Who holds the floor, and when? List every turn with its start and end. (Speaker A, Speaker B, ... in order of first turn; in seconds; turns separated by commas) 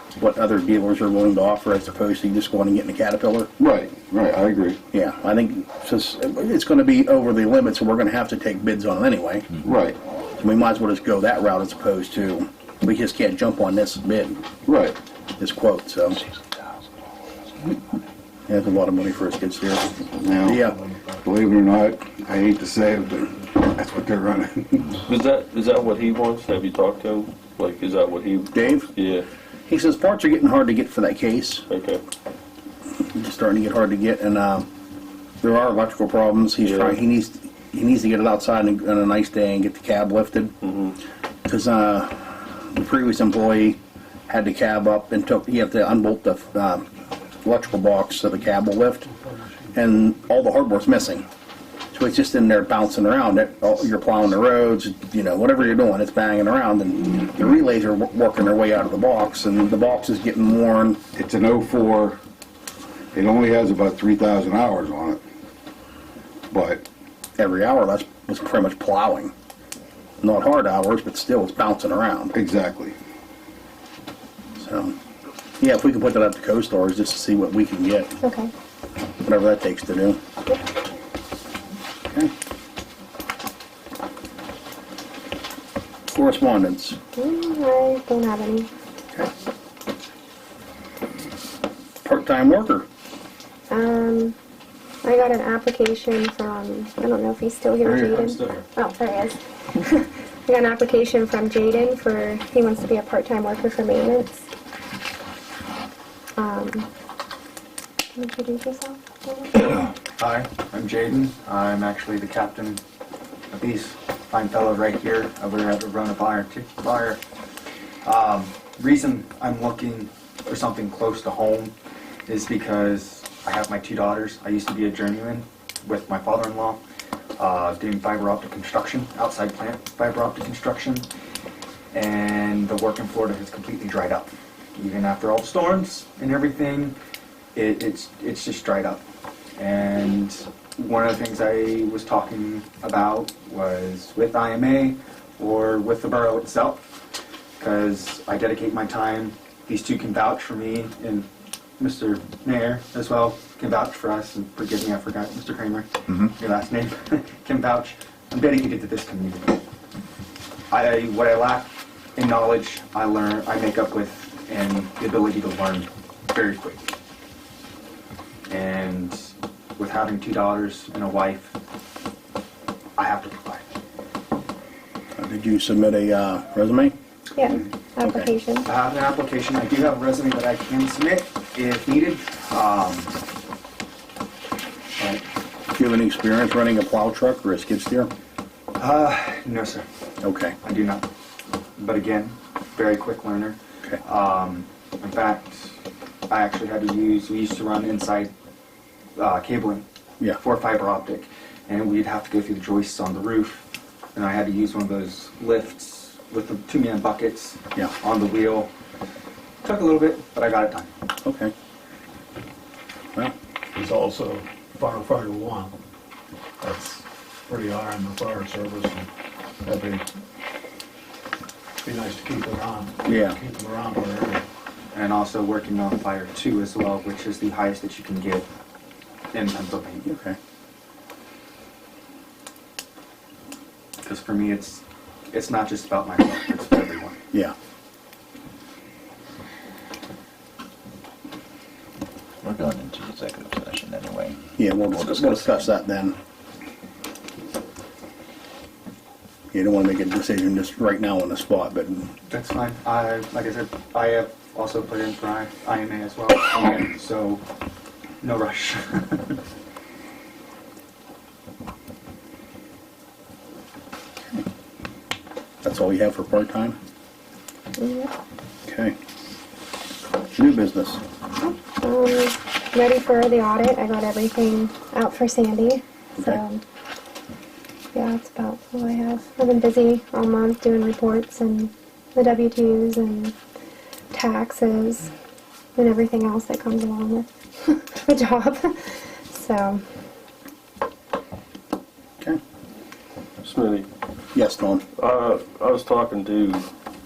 Speaker A: 0.2-3.5, Speaker B: 3.6-4.8, Speaker A: 4.9-9.5, Speaker B: 9.6-10.0, Speaker A: 10.4-14.5, Speaker B: 14.7-15.0, Speaker A: 15.4-16.2, Speaker A: 18.5-20.8, Speaker B: 20.1-20.6, Speaker C: 20.7-21.2, Speaker B: 21.2-25.0, Speaker D: 25.1-29.2, Speaker A: 28.5-28.9, Speaker A: 29.7-31.6, Speaker D: 31.7-32.0, Speaker A: 33.1-34.7, Speaker A: 35.4-40.5, Speaker D: 36.6-37.0, Speaker D: 40.6-41.0, Speaker A: 41.5-46.9, Speaker A: 47.4-49.0, Speaker C: 49.0-49.8, Speaker A: 49.8-51.2, Speaker A: 51.9-61.0, Speaker B: 61.1-62.2, Speaker B: 63.1-65.2, Speaker B: 66.5-66.8, Speaker A: 67.4-69.3, Speaker A: 70.2-72.3, Speaker B: 72.3-73.0, Speaker A: 74.6-75.0, Speaker A: 75.6-78.1, Speaker E: 78.2-78.5, Speaker A: 79.2-80.2, Speaker A: 86.1-87.0, Speaker E: 87.2-88.7, Speaker A: 92.0-92.9, Speaker E: 93.7-94.4, Speaker E: 95.0-104.5, Speaker A: 97.9-98.3, Speaker E: 106.4-106.9, Speaker E: 108.1-109.8, Speaker F: 110.2-112.8, Speaker F: 113.5-117.2, Speaker F: 118.0-121.7, Speaker F: 122.3-126.8, Speaker F: 127.4-131.1, Speaker F: 131.9-137.0, Speaker F: 137.6-139.0, Speaker F: 139.6-146.8, Speaker F: 147.6-151.3, Speaker F: 151.8-159.6, Speaker F: 160.7-166.9, Speaker F: 168.5-171.6, Speaker F: 173.0-173.7, Speaker A: 175.2-176.9, Speaker E: 177.3-178.7, Speaker A: 178.0-178.3, Speaker F: 178.6-183.1, Speaker F: 185.0-185.2, Speaker A: 185.7-188.1, Speaker F: 188.8-189.8, Speaker A: 190.2-190.6, Speaker F: 190.6-191.1, Speaker F: 191.8-195.8, Speaker F: 196.3-198.3, Speaker F: 199.2-208.7, Speaker F: 209.6-210.9, Speaker A: 211.2-211.5, Speaker C: 213.8-215.8, Speaker C: 216.6-219.1, Speaker C: 219.7-220.1, Speaker C: 221.8-224.5, Speaker A: 223.1-223.4, Speaker F: 224.9-228.5, Speaker F: 229.3-230.1, Speaker A: 230.1-230.4, Speaker F: 234.0-237.2, Speaker G: 242.4-245.7, Speaker A: 244.6-246.2, Speaker A: 249.5-252.1, Speaker F: 252.3-257.4, Speaker F: 258.2-259.4, Speaker A: 265.6-266.8, Speaker E: 267.8-268.1, Speaker A: 268.6-268.9, Speaker A: 270.3-271.0, Speaker E: 271.4-276.6, Speaker E: 277.9-283.4, Speaker E: 284.1-285.1, Speaker E: 285.8-289.8, Speaker D: 293.4-293.9, Speaker A: 294.3-294.8, Speaker D: 295.0-296.6